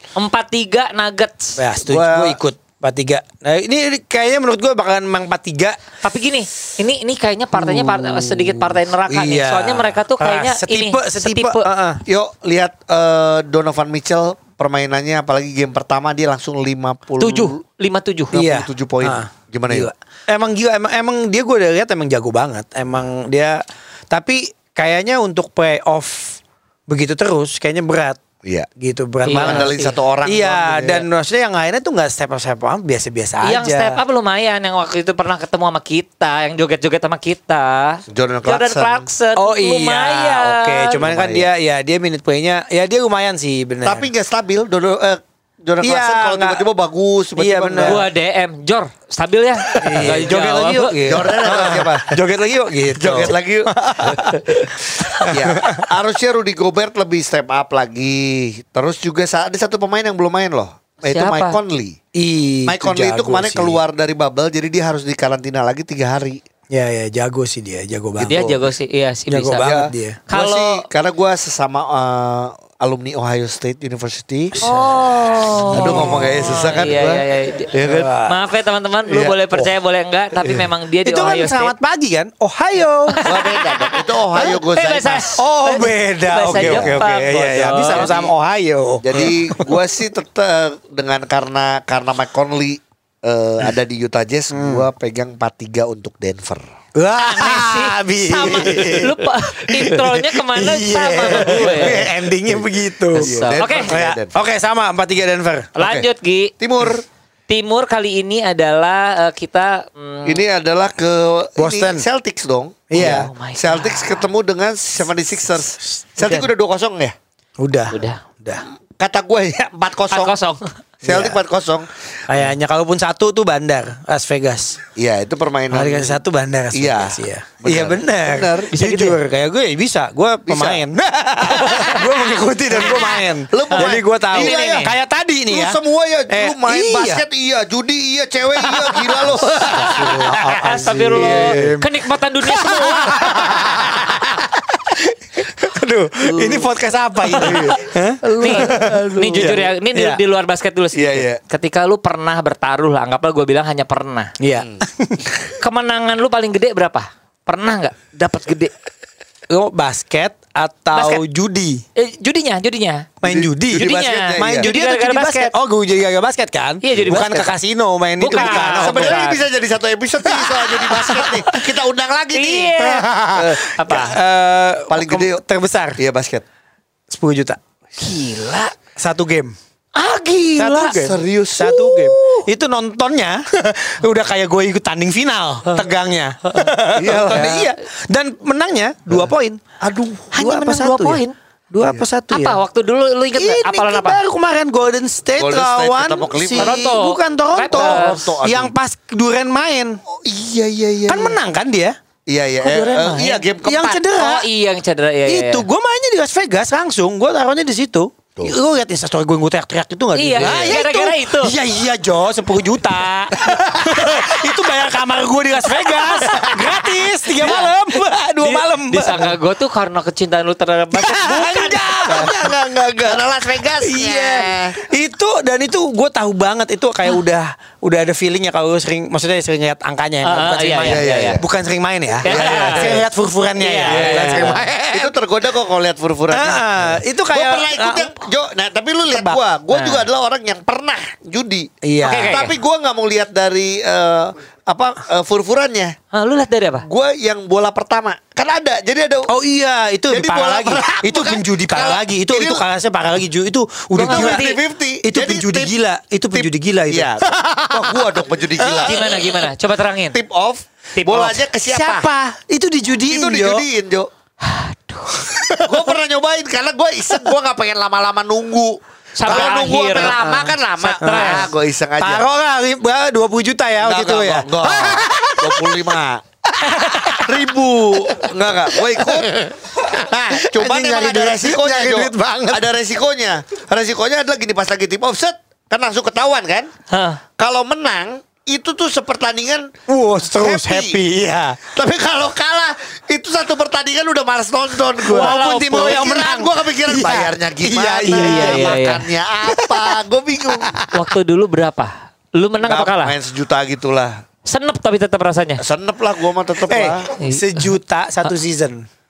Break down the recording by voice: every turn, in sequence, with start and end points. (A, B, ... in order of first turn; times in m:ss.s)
0:00.2-0:01.6 A
0:01.6-0:05.8 B
0:01.9-0:02.4 C
0:06.0-0:11.7 A
0:07.6-0:12.0 B
0:12.1-0:17.6 C
0:17.2-0:18.3 A
0:18.3-0:19.9 C
0:18.3-0:28.2 B
0:28.8-0:34.0 B
0:29.2-0:30.0 A
0:29.3-0:31.1 C
0:33.4-0:41.0 A
0:38.1-0:39.0 C
0:39.4-0:44.1 B
0:41.0-0:41.5 C
0:43.8-0:48.0 C
0:45.8-0:46.6 B
0:47.4-0:48.0 B
0:47.8-0:51.3 A
0:49.7-0:50.3 C
0:49.8-0:55.9 B
0:51.0-0:52.2 C
0:52.9-0:54.4 C
0:55.2-1:02.0 C
1:01.0-1:01.6 A
1:02.2-1:03.8 B
1:02.7-1:06.4 C
1:06.7-1:08.6 B
1:08.2-1:08.6 C
1:08.3-1:10.8 A
1:09.3-1:10.2 B
1:09.6-1:14.6 C
1:14.6-1:16.7 B
1:14.6-1:17.7 A
1:15.7-1:18.1 C
1:17.8-1:18.4 B
1:18.3-1:21.7 A
1:19.1-1:19.7 C
1:21.0-1:23.2 B
1:23.1-1:28.3 A
1:23.2-1:25.4 C
1:25.4-1:29.8 B
1:26.5-1:27.0 C
1:27.8-1:28.3 C
1:29.0-1:36.7 C
1:34.5-1:34.8 B
1:37.0-1:45.7 B
1:37.2-1:42.1 A
1:41.3-1:42.6 C
1:43.1-1:43.9 A
1:43.2-1:44.4 C
1:45.8-1:46.5 A
1:45.8-1:46.1 C
1:46.6-1:47.0 C
1:47.5-1:50.4 A
1:50.2-1:57.2 C
1:51.6-1:52.0 B
1:52.9-1:53.3 B
1:53.0-1:54.3 A
1:57.6-1:58.6 B
1:57.9-1:58.2 A
1:59.0-2:00.4 C
2:00.1-2:00.7 A
2:01.0-2:02.5 C
2:01.1-2:01.3 B
2:02.3-2:04.8 B
2:05.0-2:06.2 C
2:05.7-2:17.2 B
2:06.7-2:08.8 C
2:08.8-2:09.2 A
2:10.5-2:10.8 C
2:11.5-2:11.8 C
2:11.7-2:12.1 A
2:12.7-2:14.9 C
2:12.7-2:14.9 A
2:15.5-2:21.8 C
2:18.6-2:21.9 B
2:20.3-2:23.7 A
2:22.4-2:30.2 B
2:26.2-2:26.7 C
2:27.4-2:27.8 A
2:27.4-2:29.7 C
2:28.4-2:34.3 A
2:30.9-2:31.4 C
2:34.4-2:35.2 B
2:34.6-2:34.8 C
2:35.6-2:38.7 A
2:39.5-2:41.8 B
2:40.9-2:41.2 A
2:42.0-2:43.1 A
2:43.2-2:49.2 B
2:43.2-2:44.7 C
2:43.7-2:45.5 A
2:46.8-2:47.5 A
2:46.9-2:47.4 C
2:48.2-2:49.4 A
2:48.3-2:52.8 C
2:50.6-2:51.4 B
2:50.9-2:51.6 A
2:52.3-2:53.2 A
2:52.8-2:56.0 B
2:53.3-2:54.1 C
2:53.8-2:54.2 A
2:54.9-2:55.4 C
2:56.0-2:56.4 C
2:57.1-2:57.6 B
2:58.0-2:58.7 A
2:59.0-2:59.6 B
3:00.0-3:00.9 A
3:00.6-3:09.6 B
3:00.8-3:02.4 C
3:07.0-3:07.7 C
3:07.3-3:07.6 A
3:09.8-3:10.4 C
3:10.4-3:11.2 B
3:10.4-3:11.3 A
3:11.7-3:12.6 B
3:12.3-3:14.2 A
3:13.4-3:20.0 B
3:15.4-3:16.8 C
3:16.6-3:18.4 A
3:17.7-3:18.7 C
3:20.1-3:21.4 C
3:21.1-3:22.0 B
3:22.3-3:24.0 C
3:22.6-3:23.5 A
3:23.6-3:24.5 B
3:24.1-3:25.7 A
3:25.3-3:39.4 B
3:30.2-3:31.5 A
3:30.4-3:30.8 C
3:33.4-3:34.0 C
3:36.2-3:36.8 C
3:37.4-3:37.7 A
3:38.4-3:42.2 A
3:40.9-3:43.2 B
3:42.0-3:44.8 C
3:43.8-3:55.1 B
3:50.2-3:51.4 A
3:50.8-3:51.4 C
3:52.2-3:53.0 A
3:52.2-3:53.0 C
3:53.6-3:54.6 A
3:53.8-4:06.0 C
3:56.3-3:58.2 B
3:59.7-4:00.0 A
4:01.8-4:02.4 B
4:02.0-4:02.5 A
4:06.1-4:06.9 A
4:06.8-4:09.3 C
4:09.3-4:14.5 B
4:10.1-4:12.6 C
4:14.0-4:14.6 A
4:14.0-4:15.8 C
4:15.0-4:17.8 B
4:16.3-4:19.3 C
4:18.6-4:19.1 B
4:18.8-4:20.2 A
4:20.1-4:22.1 C
4:21.0-4:21.4 A
4:21.7-4:23.6 B
4:23.0-4:24.1 C
4:24.4-4:25.2 A
4:25.3-4:25.6 B
4:25.6-4:32.2 C
4:29.2-4:30.3 A
4:29.3-4:31.5 B
4:30.8-4:31.5 A
4:32.0-4:35.7 B
4:33.8-4:36.2 C
4:36.6-4:37.3 B
4:37.0-4:46.7 C
4:38.1-4:42.7 B
4:46.9-4:47.2 A
4:47.4-4:49.7 C
4:49.9-4:51.6 B
4:50.2-4:51.0 C
4:51.6-5:00.8 C
4:55.0-4:58.8 B
4:55.1-4:56.1 A
4:58.1-4:59.1 A
4:59.5-5:00.0 B
5:00.9-5:03.2 A
5:02.6-5:04.2 C
5:04.5-5:05.6 A
5:05.6-5:07.1 C
5:06.7-5:08.9 B
5:07.2-5:07.7 A